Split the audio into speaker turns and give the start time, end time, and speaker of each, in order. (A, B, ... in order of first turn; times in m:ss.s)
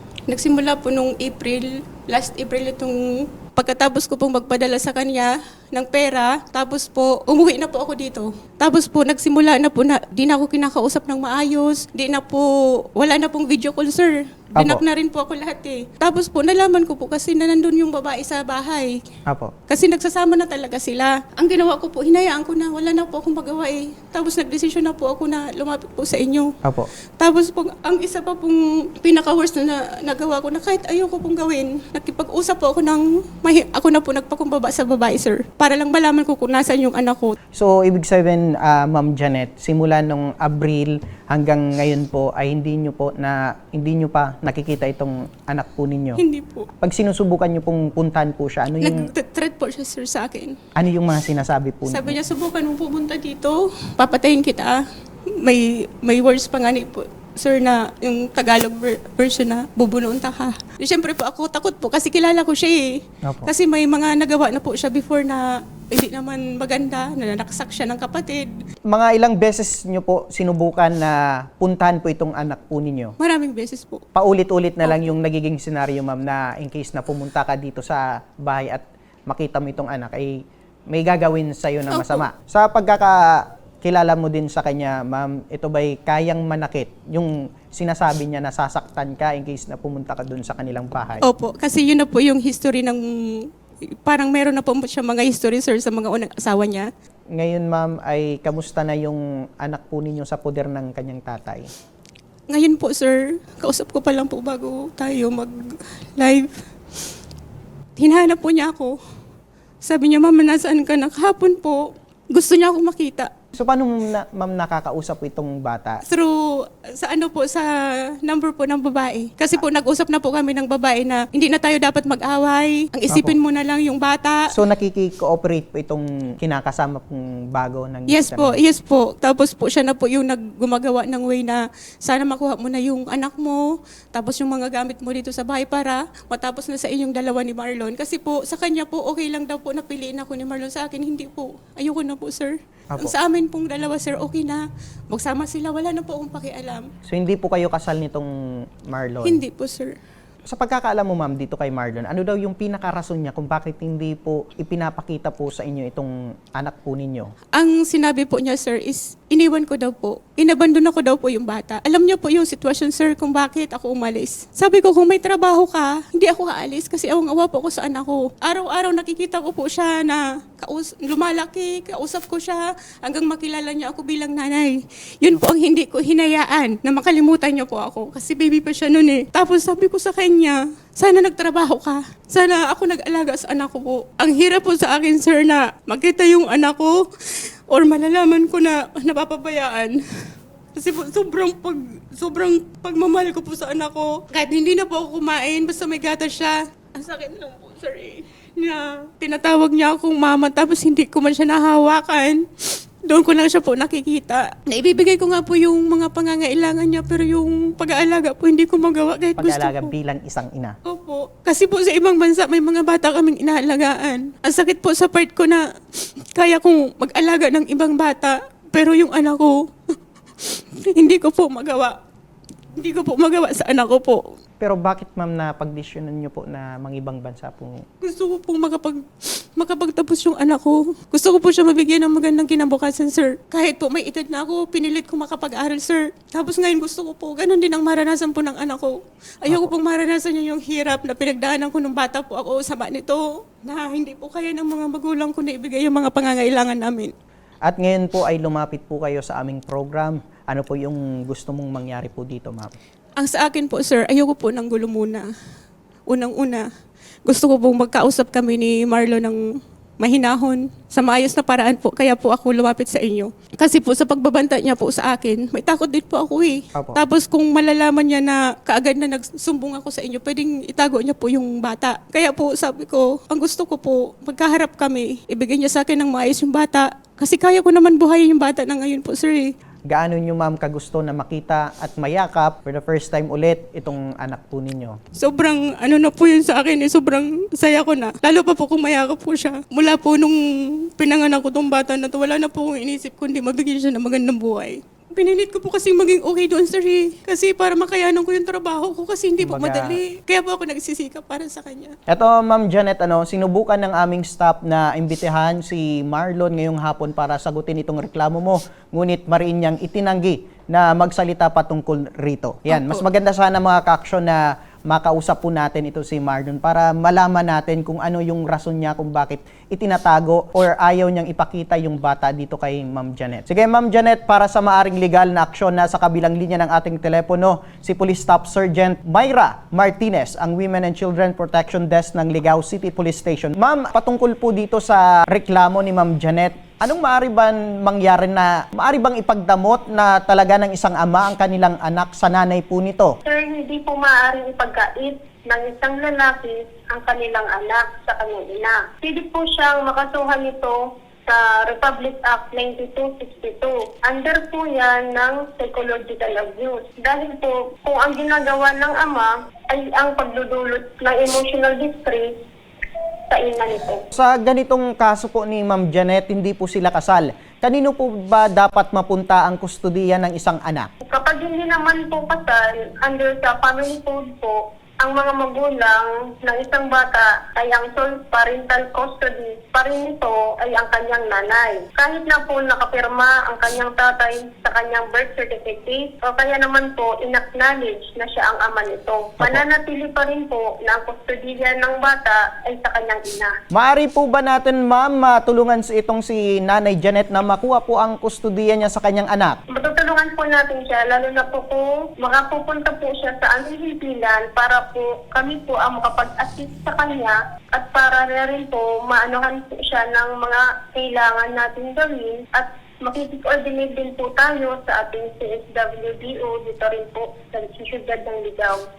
0:00.3-0:19.0 A
0:14.6-0:14.8 B
0:19.3-0:19.5 B
0:19.7-0:26.6 A
0:26.6-0:26.9 B
0:27.2-0:37.4 A
0:37.6-0:46.2 B
0:46.2-0:46.7 A
0:46.8-0:49.1 B
0:48.8-0:50.6 A
0:50.8-0:52.2 B
0:51.9-0:54.8 A
0:55.3-1:08.5 A
1:03.2-1:03.5 B
1:08.9-1:13.2 B
1:13.2-1:14.0 A
1:14.2-1:31.2 B
1:14.8-1:15.1 A
1:21.9-1:22.3 A
1:31.2-1:36.9 A
1:37.3-1:41.7 B
1:42.5-1:46.5 A
1:48.0-1:49.0 A
1:49.8-1:53.3 A
1:53.5-1:56.0 B
1:56.1-2:04.5 A
2:03.1-2:03.4 B
2:04.5-2:08.6 B
2:08.1-2:26.9 A
2:27.1-2:28.3 B
2:28.9-2:29.4 B
2:29.2-2:30.0 A
2:30.5-2:37.3 B
2:37.5-3:07.0 A
3:07.7-3:10.0 A
3:10.8-3:22.5 A
3:23.1-3:29.9 A
3:29.4-3:30.8 B
3:30.8-3:35.7 A
3:36.4-3:39.6 A
3:40.4-3:42.0 A
3:42.8-3:44.4 A
3:44.6-3:47.8 B
3:48.0-4:07.1 A
4:07.6-4:12.7 B
4:13.2-4:15.3 A
4:16.1-4:16.7 A
4:17.3-4:19.4 A
4:20.0-4:39.5 A
4:26.7-4:27.0 B
4:39.9-4:45.0 B
4:45.2-5:02.0 A
4:59.4-5:00.0 B
5:02.1-5:43.2 B
5:12.7-5:13.0 A
5:43.2-6:02.3 C
6:03.3-6:04.0 C
6:04.1-6:10.9 B
6:11.1-6:33.5 C
6:29.4-6:29.6 B
6:33.7-6:39.6 B
6:39.7-6:58.8 C